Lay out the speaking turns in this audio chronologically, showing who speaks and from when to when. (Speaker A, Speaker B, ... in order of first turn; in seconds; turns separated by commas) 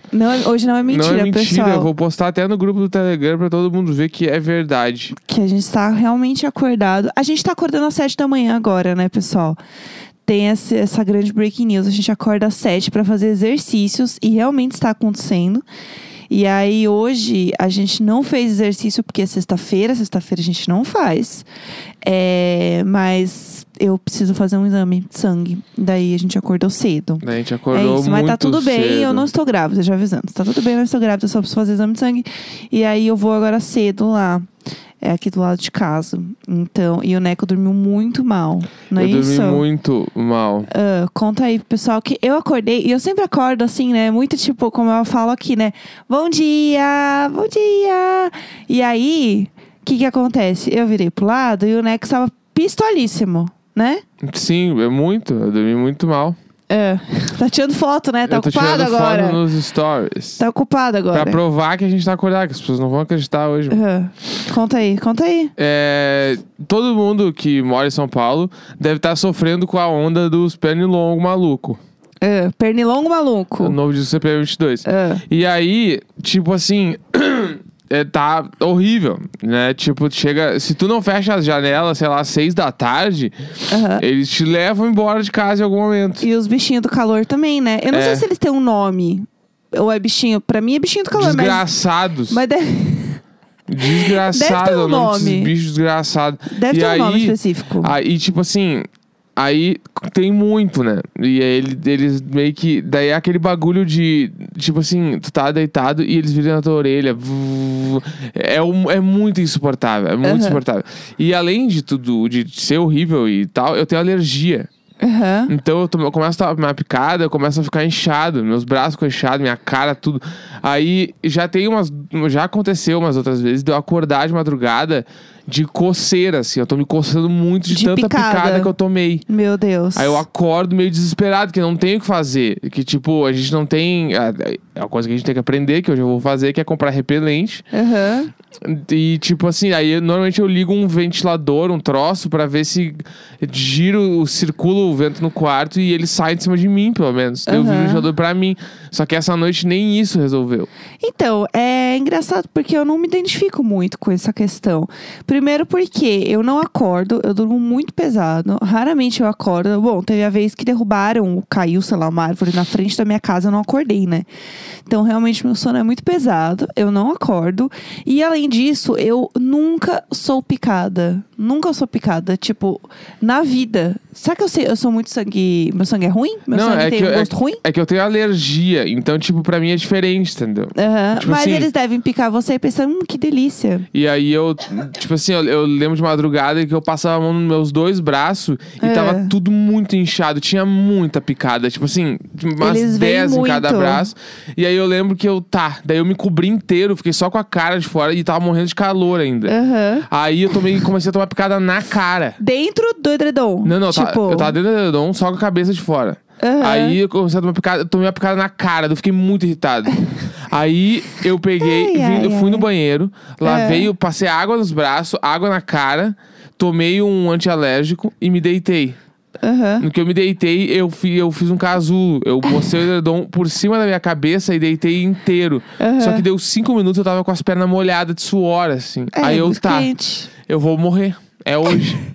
Speaker A: 0.1-1.9, Speaker B: 0.9-5.2, Speaker A: 5.2-9.6, Speaker A: 10.3-15.7, Speaker A: 16.3-21.5, Speaker A: 22.0-34.5, Speaker B: 27.2-29.3, Speaker A: 35.0-39.6, Speaker B: 39.0-40.7, Speaker A: 40.7-54.0, Speaker B: 54.2-56.4, Speaker A: 56.7-59.4, Speaker B: 58.3-60.4, Speaker A: 60.4-61.4, Speaker B: 61.1-63.8, Speaker A: 63.7-65.5, Speaker B: 65.6-71.8, Speaker A: 72.2-73.8, Speaker B: 73.6-83.3, Speaker A: 74.8-75.2, Speaker A: 83.7-84.0, Speaker B: 83.9-86.3, Speaker A: 86.2-91.7, Speaker B: 87.9-88.2, Speaker B: 91.1-92.4, Speaker A: 92.3-93.2, Speaker B: 93.7-114.7, Speaker A: 94.0-95.5, Speaker A: 96.5-97.9, Speaker A: 110.2-110.6, Speaker A: 115.0-115.5, Speaker B: 115.5-129.2, Speaker A: 127.7-128.7, Speaker A: 129.3-130.2, Speaker B: 130.0-137.6, Speaker A: 137.7-138.3, Speaker B: 138.6-150.7, Speaker A: 147.5-148.1, Speaker A: 151.0-164.3, Speaker A: 164.9-177.6, Speaker B: 176.5-181.7, Speaker A: 180.8-183.9, Speaker B: 183.9-199.6, Speaker A: 188.8-189.3, Speaker A: 192.6-194.1, Speaker A: 199.5-200.1, Speaker B: 200.1-202.4, Speaker A: 202.4-204.6, Speaker B: 203.7-219.0, Speaker A: 206.4-207.0, Speaker A: 211.6-212.7, Speaker A: 213.4-213.9, Speaker A: 219.4-219.8, Speaker B: 219.8-229.9, Speaker A: 225.8-226.2, Speaker A: 229.2-230.3, Speaker B: 230.5-232.0